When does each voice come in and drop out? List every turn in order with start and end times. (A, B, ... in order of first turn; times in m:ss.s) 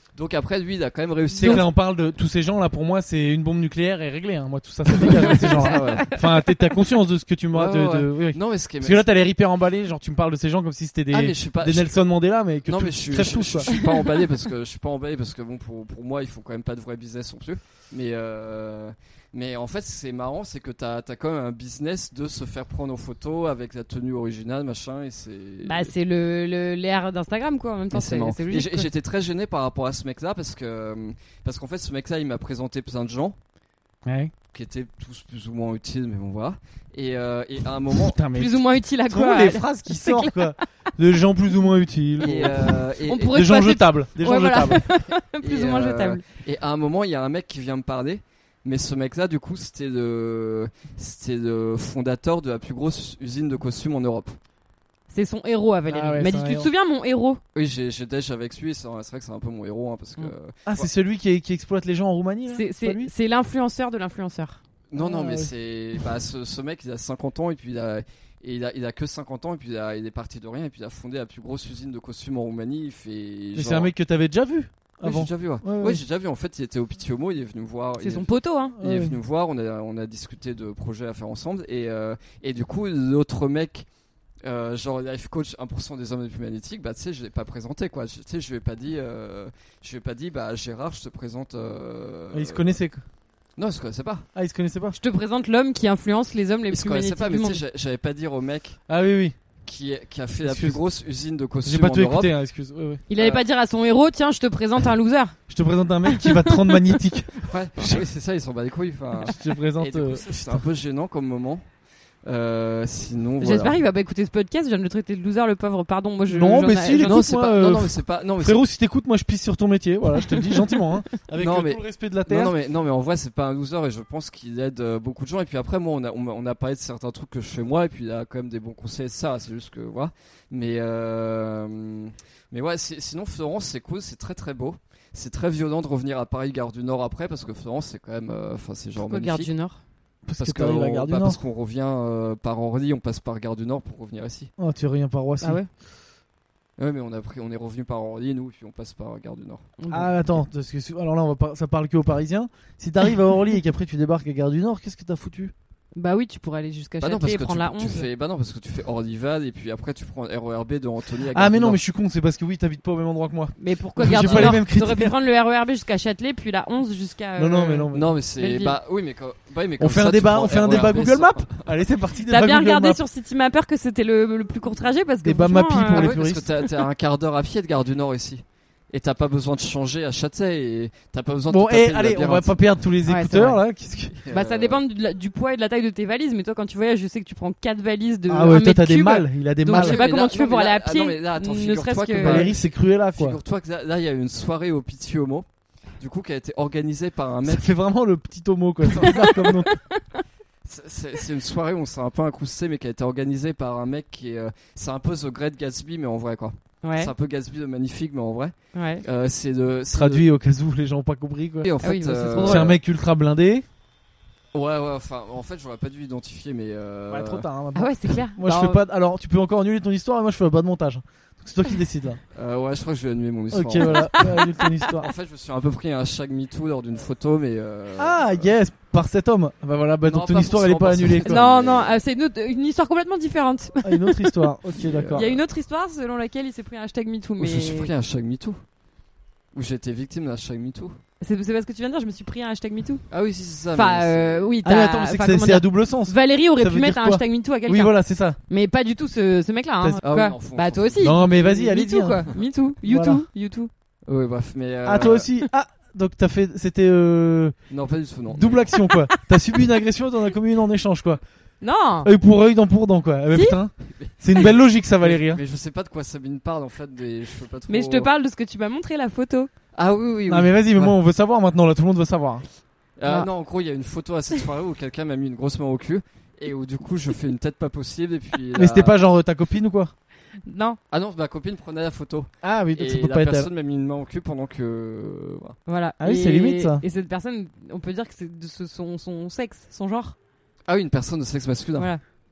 0:00.2-0:01.7 A
0:01.4-0:01.6 B
0:01.4-0:13.7 C
0:05.0-0:06.1 A
0:05.1-0:06.2 B
0:07.5-0:09.1 A
0:11.1-0:12.0 A
0:12.6-0:25.9 A
0:25.6-0:28.9 B
0:27.9-0:33.4 A
0:34.0-0:34.3 C
0:34.5-0:38.2 A
0:37.9-0:44.8 C
0:38.3-0:40.5 B
0:42.2-0:43.5 A
0:42.2-0:46.2 B
0:45.4-0:54.4 A
0:55.1-0:57.4 B
0:55.9-0:56.7 C
0:57.6-1:00.9 A
1:00.7-1:03.1 C
1:02.5-1:04.6 B
1:04.9-1:13.9 A
1:05.0-1:05.5 C
1:13.6-1:16.0 C
1:15.0-1:23.9 A
1:18.0-1:18.8 B
1:18.8-1:19.2 C
1:24.4-1:32.8 A
1:32.3-1:33.0 C
1:33.6-1:34.3 A
1:34.4-1:35.0 C
1:35.0-1:37.6 B
1:36.7-1:38.8 A
1:38.9-1:39.4 C
1:39.6-1:42.3 A
1:40.4-1:40.8 C
1:41.6-1:43.0 C
1:43.1-1:45.4 B
1:43.2-1:43.4 A
1:45.5-1:48.0 C
1:46.1-1:46.8 B
1:47.4-1:51.6 A
1:49.2-1:50.6 C
1:52.2-1:53.8 A
1:53.4-1:57.2 B
1:56.3-2:02.5 C
1:57.0-1:58.6 A
2:01.4-2:19.5 A
2:19.0-2:19.8 B
2:20.3-2:21.4 C
2:20.4-2:24.5 A
2:24.6-2:25.6 C
2:25.4-2:25.7 B
2:26.8-2:29.7 A
2:29.8-2:30.4 B
2:29.9-2:35.5 C
2:36.0-2:38.1 B
2:37.0-2:41.8 A
2:41.3-2:45.1 C
2:43.6-2:48.8 B
2:44.1-2:44.6 A
2:47.4-2:48.1 C
2:47.9-2:51.7 A
2:49.8-2:53.0 C
2:52.3-2:56.2 B
2:55.2-2:56.5 C
2:55.9-3:02.6 A
3:01.5-3:04.2 C
3:03.1-3:03.6 B
3:04.1-3:04.8 A
3:04.3-3:12.5 B
3:08.3-3:10.0 C
3:09.7-3:15.5 A
3:12.2-3:13.4 C
3:16.0-3:17.7 A
3:17.5-3:19.7 C
3:19.0-3:20.0 B
3:20.6-3:30.2 A
3:26.8-3:27.1 B
3:28.7-3:29.0 B
3:29.9-3:31.7 C
3:31.6-3:32.8 A
3:31.8-3:32.7 B
3:32.4-3:33.6 C
3:34.5-3:37.5 A
3:37.1-3:42.2 C
3:37.8-3:38.8 B
3:42.3-3:48.5 A
3:43.5-3:45.1 C
3:48.0-3:51.4 C
3:50.0-3:52.0 A
3:51.2-3:54.4 B
3:53.8-3:55.4 C
3:54.8-3:55.4 A
3:55.1-3:57.9 B
3:57.4-3:58.6 A
3:59.5-4:01.0 A
4:01.2-4:03.1 B
4:03.1-4:04.5 A
4:03.8-4:08.0 B
4:04.6-4:08.4 C
4:08.5-4:13.7 B
4:10.0-4:11.2 A
4:11.0-4:12.2 C
4:12.8-4:13.2 C
4:14.1-4:15.3 A
4:14.8-4:17.6 C
4:17.7-4:18.8 A
4:18.3-4:21.2 C
4:21.6-4:22.1 B
4:22.0-4:25.4 C
4:23.3-4:23.6 B
4:23.9-4:24.5 A
4:25.0-4:28.1 A
4:27.7-4:29.5 B
4:29.7-4:31.0 A
4:30.3-4:32.4 C
4:33.0-4:39.0 A
4:38.5-4:39.9 C
4:40.4-4:40.8 B
4:40.9-4:45.6 A
4:42.4-4:43.5 C
4:45.7-4:50.2 B
4:46.0-4:46.8 C
4:50.7-4:51.9 A